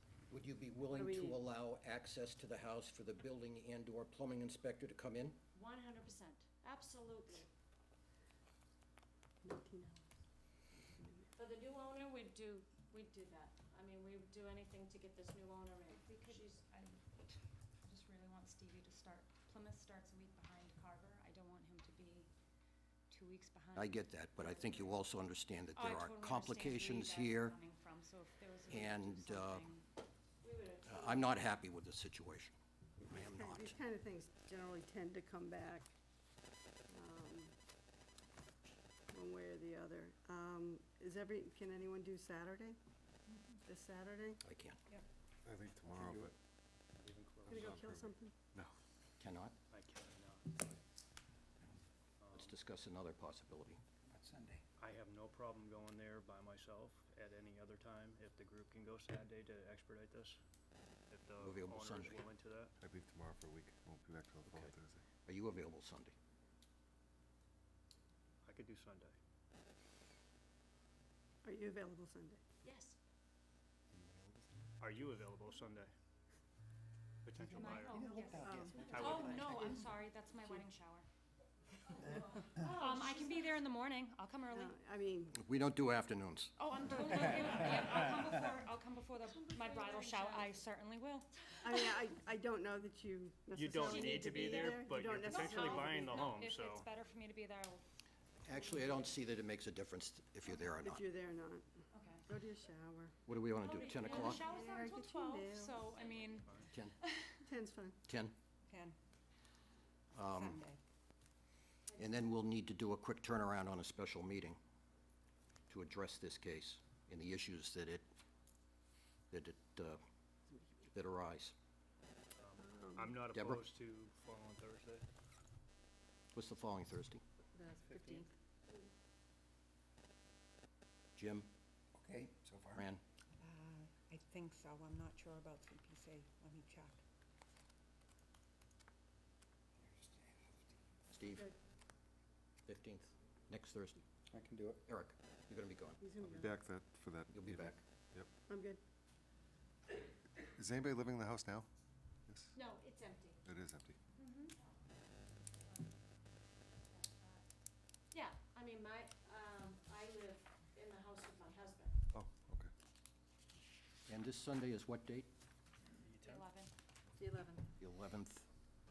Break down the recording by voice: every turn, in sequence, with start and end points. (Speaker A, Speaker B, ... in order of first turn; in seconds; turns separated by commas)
Speaker A: 0.3-5.4, Speaker B: 0.9-1.4, Speaker C: 5.5-7.5, Speaker B: 9.4-10.1, Speaker B: 10.7-11.3, Speaker C: 11.3-16.5, Speaker D: 15.9-22.3, Speaker D: 23.1-25.0, Speaker A: 23.7-27.6, Speaker D: 25.7-29.8, Speaker A: 28.7-29.7, Speaker C: 30.4-31.3, Speaker A: 30.8-32.5, Speaker B: 33.0-35.9, Speaker A: 33.1-33.8, Speaker B: 36.9-37.5, Speaker B: 39.1-42.8, Speaker B: 43.6-44.4, Speaker A: 44.4-44.8, Speaker E: 45.4-46.3, Speaker F: 45.9-46.3, Speaker G: 47.0-47.7, Speaker E: 47.5-48.7, Speaker B: 47.5-48.3, Speaker A: 49.2-49.5, Speaker G: 49.7-50.8, Speaker G: 52.2-52.6, Speaker A: 52.3-53.8, Speaker F: 54.1-54.6, Speaker G: 54.8-60.4, Speaker G: 61.1-62.7, Speaker A: 61.4-62.2, Speaker E: 62.8-65.0, Speaker A: 64.5-64.7, Speaker A: 65.2-66.1, Speaker G: 68.4-69.2, Speaker B: 71.4-72.4, Speaker C: 72.6-73.0, Speaker E: 74.0-74.3, Speaker G: 74.8-75.9, Speaker G: 77.2-78.2, Speaker D: 77.5-81.0, Speaker F: 78.0-79.5, Speaker B: 78.2-79.9, Speaker C: 78.5-79.1, Speaker G: 78.9-79.6, Speaker C: 82.4-83.5, Speaker D: 82.7-84.7, Speaker B: 84.5-85.4, Speaker A: 85.3-86.5, Speaker D: 86.6-91.9, Speaker C: 89.2-90.5, Speaker B: 91.6-96.3, Speaker G: 93.5-96.8, Speaker D: 93.8-94.7, Speaker D: 95.2-97.8, Speaker A: 98.4-101.0, Speaker B: 100.8-101.7, Speaker D: 101.9-102.2, Speaker B: 102.2-103.1, Speaker A: 103.3-104.5, Speaker D: 103.6-107.4, Speaker B: 104.1-105.9, Speaker G: 106.0-106.7, Speaker B: 107.4-108.0, Speaker A: 108.1-108.3, Speaker H: 108.7-108.9, Speaker A: 110.1-110.6, Speaker H: 110.3-110.8, Speaker C: 111.9-112.3, Speaker A: 112.0-114.6, Speaker A: 115.7-118.0, Speaker A: 119.3-120.0, Speaker A: 120.9-121.5, Speaker G: 122.4-125.0, Speaker B: 122.6-123.2, Speaker A: 123.3-123.6, Speaker A: 126.3-127.2, Speaker B: 127.5-128.3, Speaker G: 127.8-128.3, Speaker A: 131.2-131.5, Speaker F: 132.0-132.8, Speaker A: 132.7-133.0, Speaker H: 133.4-137.0, Speaker F: 140.0-140.3, Speaker A: 141.1-141.5, Speaker A: 142.7-144.0, Speaker F: 144.3-144.8, Speaker A: 144.9-146.0, Speaker B: 146.0-146.5, Speaker E: 146.2-148.3, Speaker A: 147.3-147.8, Speaker B: 148.5-148.8, Speaker E: 150.4-151.7, Speaker E: 152.3-152.5, Speaker C: 152.5-153.4, Speaker E: 153.4-154.0, Speaker D: 154.2-154.6, Speaker D: 156.9-157.4, Speaker C: 158.1-161.9, Speaker E: 162.1-162.7, Speaker A: 164.1-165.3, Speaker G: 166.0-166.4, Speaker D: 166.2-166.7, Speaker B: 167.2-167.7, Speaker A: 167.8-168.5